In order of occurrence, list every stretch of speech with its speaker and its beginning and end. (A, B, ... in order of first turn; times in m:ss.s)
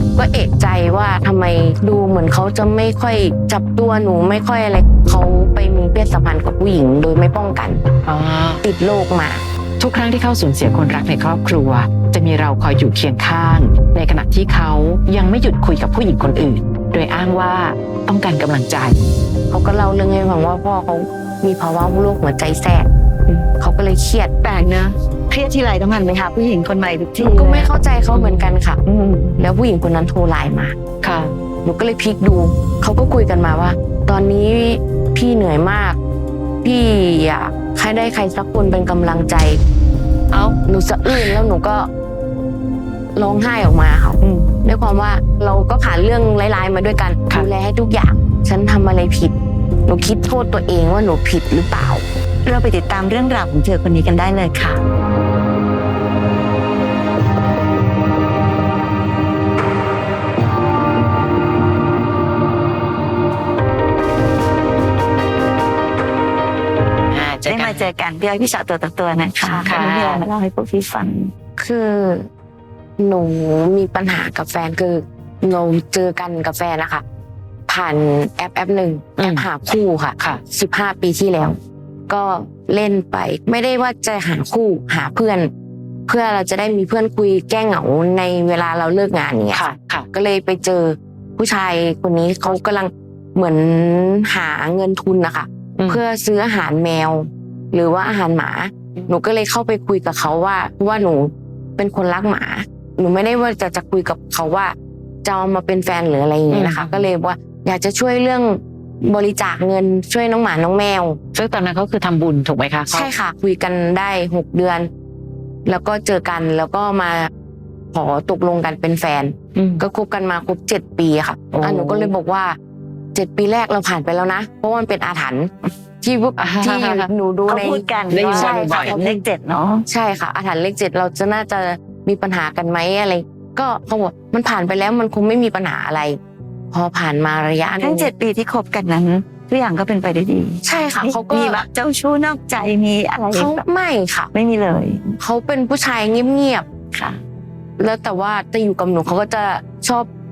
0:00.1-0:07.8 A
0:08.0-0:08.6 B
0:08.6-0:09.4 A
0:09.8-0:19.0 B
0:19.5-0:22.9 A
0:23.6-0:24.3 A
0:24.4-0:27.7 C
0:27.2-0:28.8 A
0:28.1-0:28.5 B
0:28.9-0:29.3 C
0:29.4-0:30.8 A
0:31.0-0:31.3 B
0:31.6-0:36.0 A
0:36.6-0:39.6 A
0:40.7-0:41.9 A
0:43.2-0:49.3 A
0:49.9-0:52.0 A
0:52.4-0:54.8 C
1:07.1-1:07.9 B
1:07.4-1:11.3 C
1:09.6-1:10.3 B
1:11.6-1:12.3 A
1:13.0-1:17.0 A
1:17.7-1:25.5 A
1:19.2-1:19.4 B
1:26.1-1:51.2 A
1:29.5-1:30.1 B
1:46.5-1:47.1 B
1:51.3-1:53.1 B
1:52.9-1:54.9 A
1:55.7-1:57.3 A
1:57.9-2:02.6 A
1:59.6-1:59.8 B
2:01.5-2:02.1 B
2:03.1-2:09.2 A
2:06.4-2:07.1 B
2:07.5-2:09.8 C
2:08.1-2:09.0 B
2:09.9-2:16.2 A
2:16.7-2:18.1 A
2:17.8-2:23.6 C
2:20.6-2:21.6 A
2:23.3-2:24.3 A
2:24.3-2:25.2 C
2:25.2-2:26.7 A
2:27.8-2:30.1 A